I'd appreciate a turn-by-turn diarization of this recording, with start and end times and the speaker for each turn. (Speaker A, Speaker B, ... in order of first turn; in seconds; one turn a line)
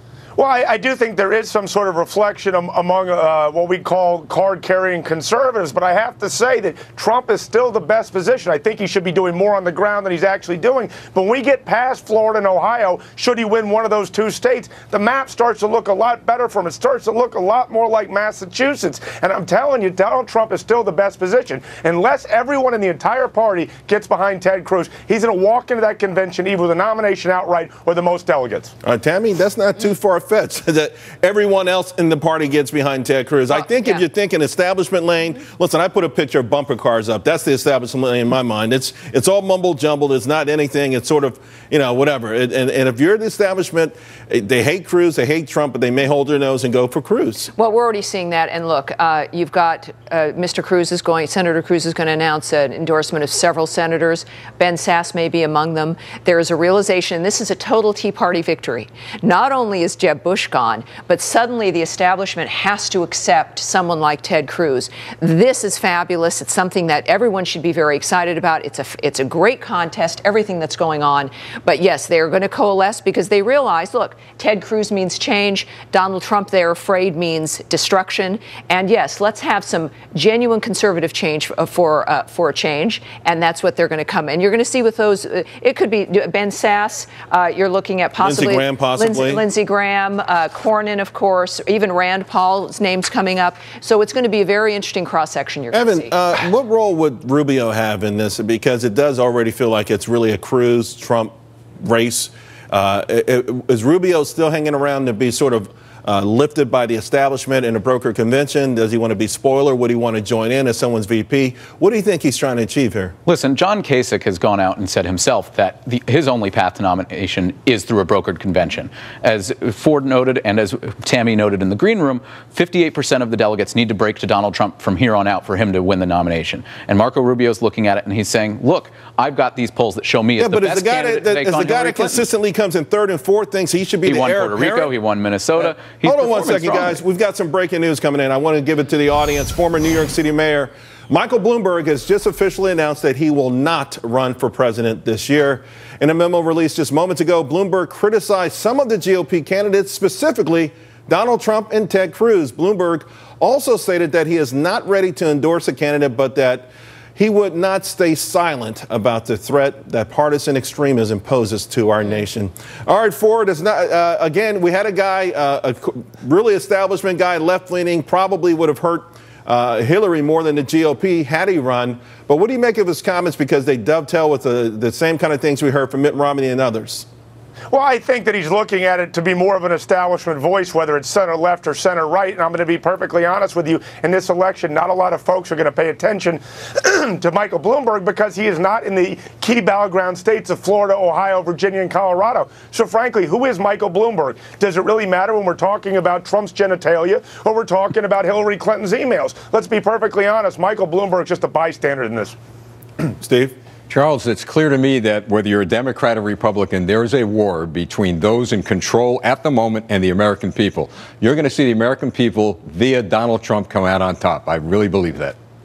Speaker A: 0.4-28.7
Speaker B: 28.8-47.5
Speaker C: 47.6-96.1
Speaker B: 88.2-89.4
Speaker B: 95.7-113.1
Speaker D: 113.2-132.2
Speaker B: 130.4-134.9
Speaker D: 134.0-137.0
Speaker B: 136.0-177.1
Speaker A: 177.7-202.3
Speaker B: 203.2-203.5
Speaker E: 203.9-215.4